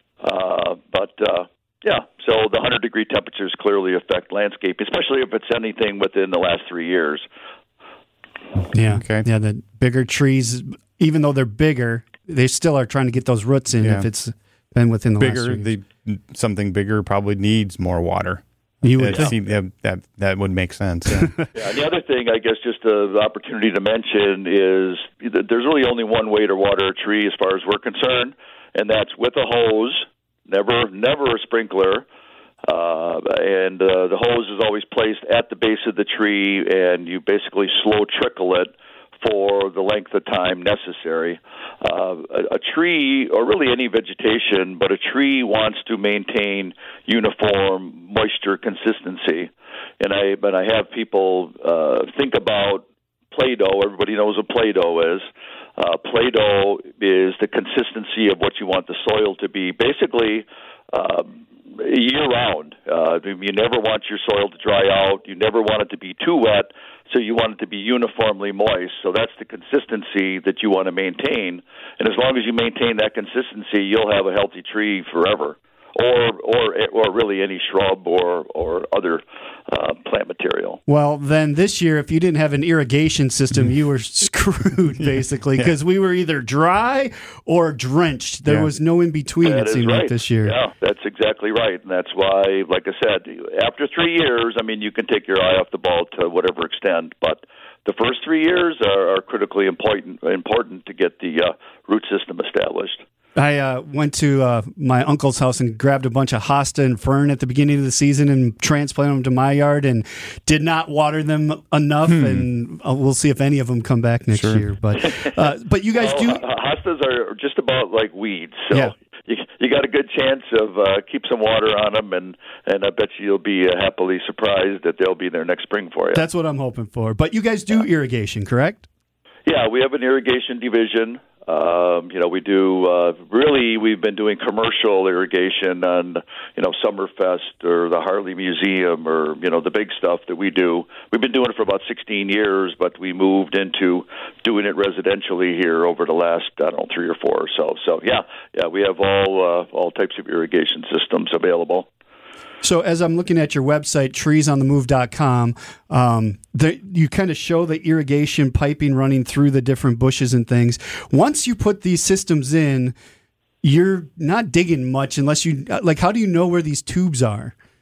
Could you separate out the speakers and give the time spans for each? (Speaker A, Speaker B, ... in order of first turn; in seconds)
Speaker A: 0.2-7.2, 21.5-32.0, 32.6-55.2, 55.8-80.8, 89.4-103.0, 115.9-126.2, 129.4-151.9
Speaker B: 8.7-15.7, 18.8-19.3, 80.9-90.5, 103.3-116.4, 126.1-128.8, 152.6-162.9, 163.6-167.5
Speaker C: 8.8-9.2, 15.2-21.3, 112.1-112.4, 114.3-114.6